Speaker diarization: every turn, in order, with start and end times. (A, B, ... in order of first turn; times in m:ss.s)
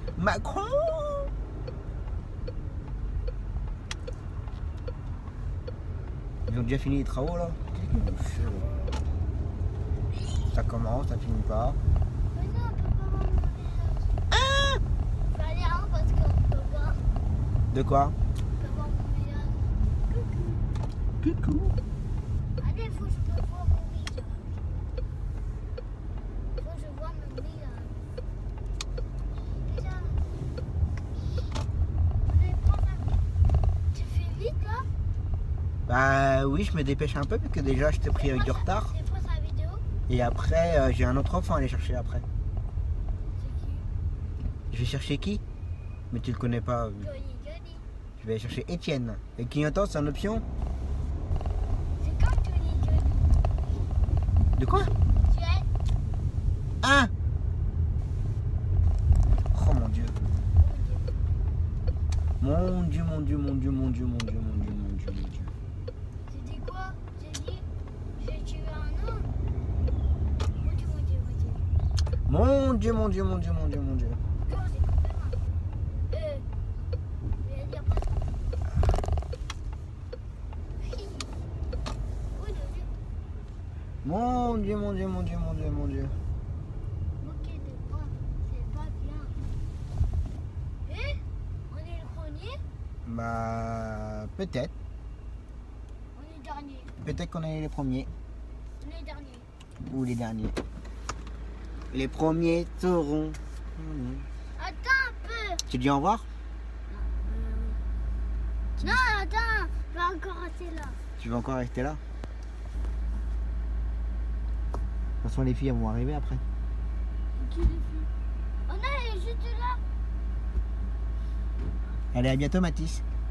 0:00.2-0:01.3 A
0:06.4-0:08.7 A
0:08.5-0:08.9 B
0:10.5-0:11.8 A
0:12.3-0:14.2 B
0:14.3-0:14.8 A
0:15.3-0:17.1 B
0:17.7-0:18.2 A
0:18.5-0:20.6 B
0:21.2-0:21.8 A
0:22.6-0:24.6 B
0:26.6-0:28.0 B
0:29.5-0:30.3 B
0:32.2-0:33.2 B
0:33.9-0:34.9 B
0:35.9-0:38.9 A
0:38.1-0:39.8 B
0:40.1-0:42.2 A
0:43.4-0:43.9 B
0:44.7-0:45.4 A
0:46.1-0:47.1 A
0:47.0-0:47.8 B
0:48.2-0:50.4 A
0:52.0-0:53.4 B
0:54.6-0:54.9 A
0:55.1-0:55.7 B
0:56.8-0:57.1 A
0:59.5-1:00.1 A
1:00.6-1:01.2 B
1:02.4-1:05.5 A
1:06.3-1:09.3 B
1:10.6-1:11.6 B
1:12.3-1:14.2 A
1:14.4-1:15.4 B
1:16.1-1:16.4 B
1:17.4-1:18.5 B
1:20.8-1:21.4 B
1:22.3-1:22.9 B
1:24.0-1:26.2 A
1:27.2-1:29.4 B
1:30.8-1:32.6 B
1:33.0-1:34.7 A
1:36.1-1:36.9 B
1:37.0-1:38.1 A
1:38.8-1:39.5 B
1:39.8-1:40.6 A
1:41.9-1:44.3 A
1:44.6-1:45.6 B
1:45.7-1:46.2 A
1:46.9-1:47.8 B
1:48.8-1:51.0 B
1:51.2-1:52.0 A
1:55.2-1:56.4 A
1:57.3-1:58.1 B
1:58.6-1:59.8 B
2:02.1-2:03.0 A